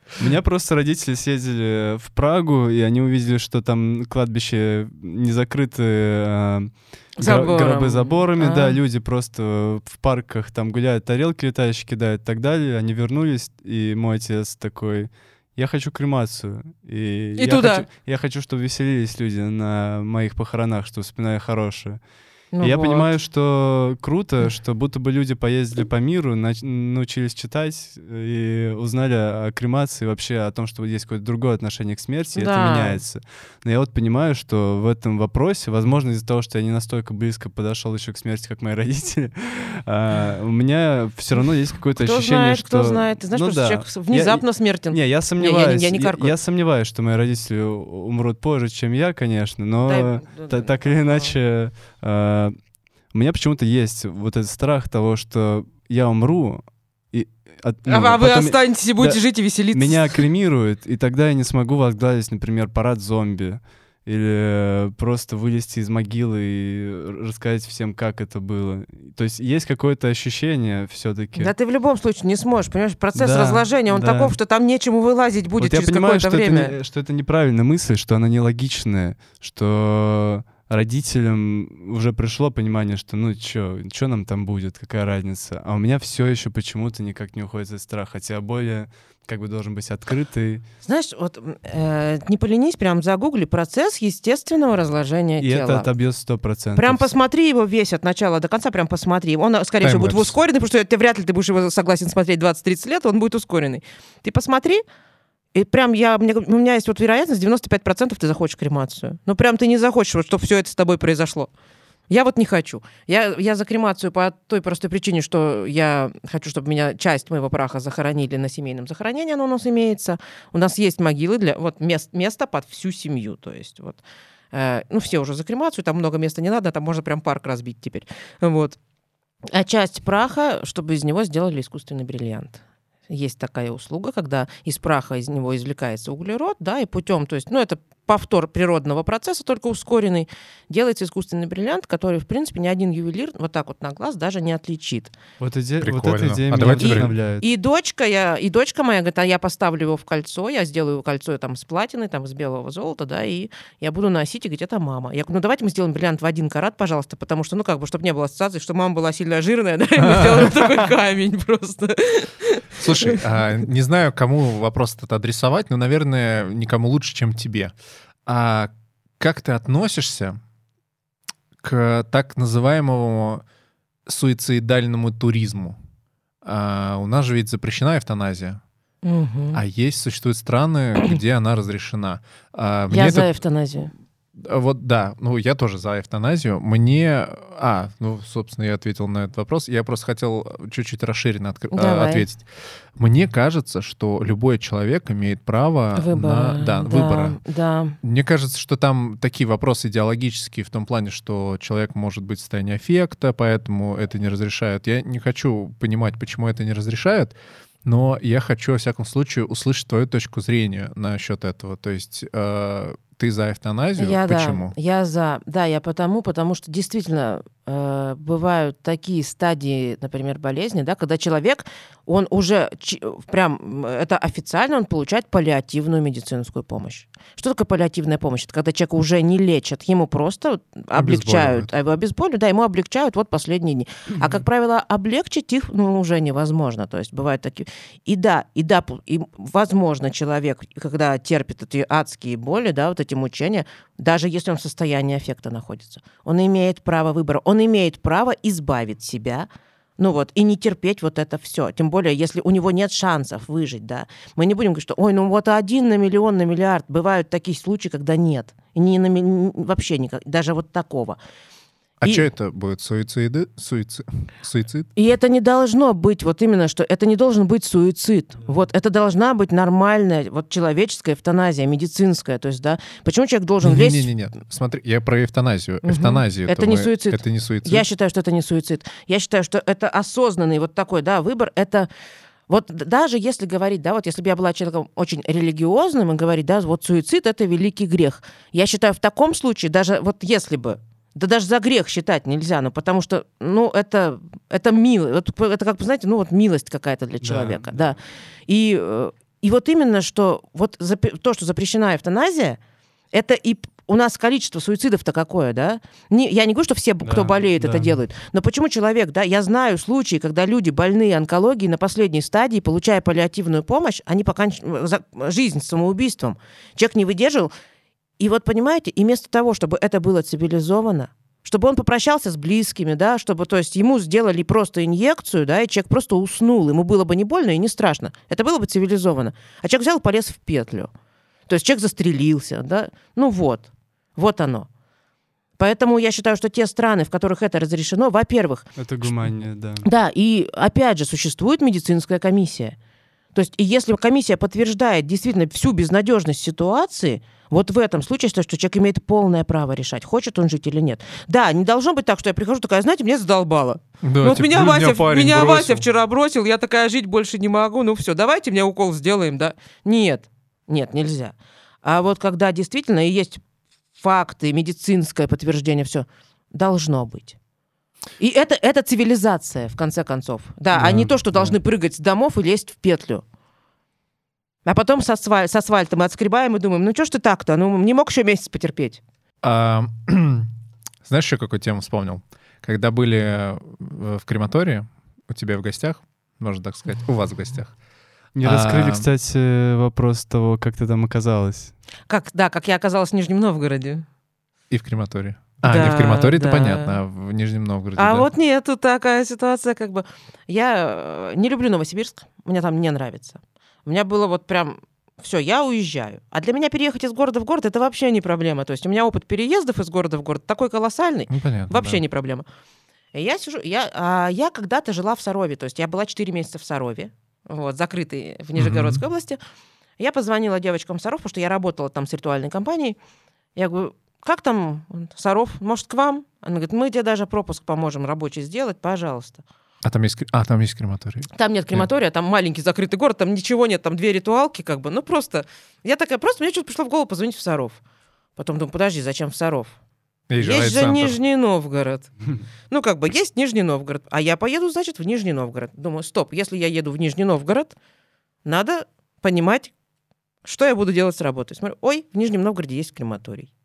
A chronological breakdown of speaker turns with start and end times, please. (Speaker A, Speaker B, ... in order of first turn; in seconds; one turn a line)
Speaker A: 0.2-71.5
Speaker B: 7.2-8.8
Speaker B: 17.4-17.9
Speaker B: 22.5-23.1
Speaker B: 32.4-33.0
Speaker B: 42.0-46.4
Speaker B: 49.9-51.4
Speaker B: 57.9-60.2
Speaker B: 71.3-76.8
Speaker A: 73.2-74.4
Speaker A: 75.6-90.7
Speaker B: 90.8-95.9
Speaker A: 95.4-97.1
Speaker B: 96.8-104.8
Speaker C: 99.8-100.4
Speaker B: 105.5-111.5
Speaker B: 112.1-124.0
Speaker B: 124.5-128.8
Speaker B: 129.5-145.1
Speaker A: 145.4-147.4
Speaker C: 145.8-147.2
Speaker B: 146.8-163.2
Speaker C: 160.0-160.5
Speaker C: 162.8-167.7
Speaker C: 168.3-170.4
Speaker C: 171.6-173.4
Speaker C: 174.1-175.8
Speaker C: 176.4-178.6
Speaker B: 179.0-179.6
Speaker C: 179.5-183.3
Speaker B: 182.9-183.9
Speaker C: 184.4-192.4
Speaker B: 191.7-192.3
Speaker C: 193.0-197.4
Speaker B: 195.9-198.0
Speaker C: 198.0-214.7
Speaker B: 214.0-261.2
Speaker C: 230.9-231.7
Speaker C: 262.0-264.9
Speaker B: 262.0-262.3
Speaker B: 265.0-274.1
Speaker C: 273.6-277.9
Speaker B: 275.9-281.9
Speaker B: 282.5-302.6
Speaker A: 297.2-297.8
Speaker B: 303.1-317.5
Speaker A: 307.0-307.9
Speaker B: 318.2-330.9
Speaker B: 331.5-334.7
Speaker B: 335.6-338.8
Speaker A: 338.8-339.9
Speaker B: 339.8-342.8
Speaker B: 343.4-363.4
Speaker C: 354.0-355.9
Speaker B: 364.0-367.4
Speaker B: 368.2-373.2
Speaker A: 370.7-371.6
Speaker B: 374.6-379.0
Speaker C: 379.4-380.5
Speaker C: 381.1-387.8
Speaker A: 388.4-391.8
Speaker C: 388.4-389.1
Speaker B: 392.1-394.1
Speaker C: 394.7-398.3
Speaker B: 395.6-397.0
Speaker B: 398.0-412.5
Speaker C: 411.3-412.0
Speaker B: 413.1-419.4
Speaker C: 418.6-419.0
Speaker B: 420.0-423.0
Speaker B: 423.6-429.4
Speaker C: 429.8-431.9
Speaker B: 431.3-437.8
Speaker B: 438.4-439.8
Speaker C: 440.3-441.2
Speaker B: 440.4-442.1
Speaker B: 442.7-447.8
Speaker B: 448.4-449.7
Speaker B: 450.4-453.5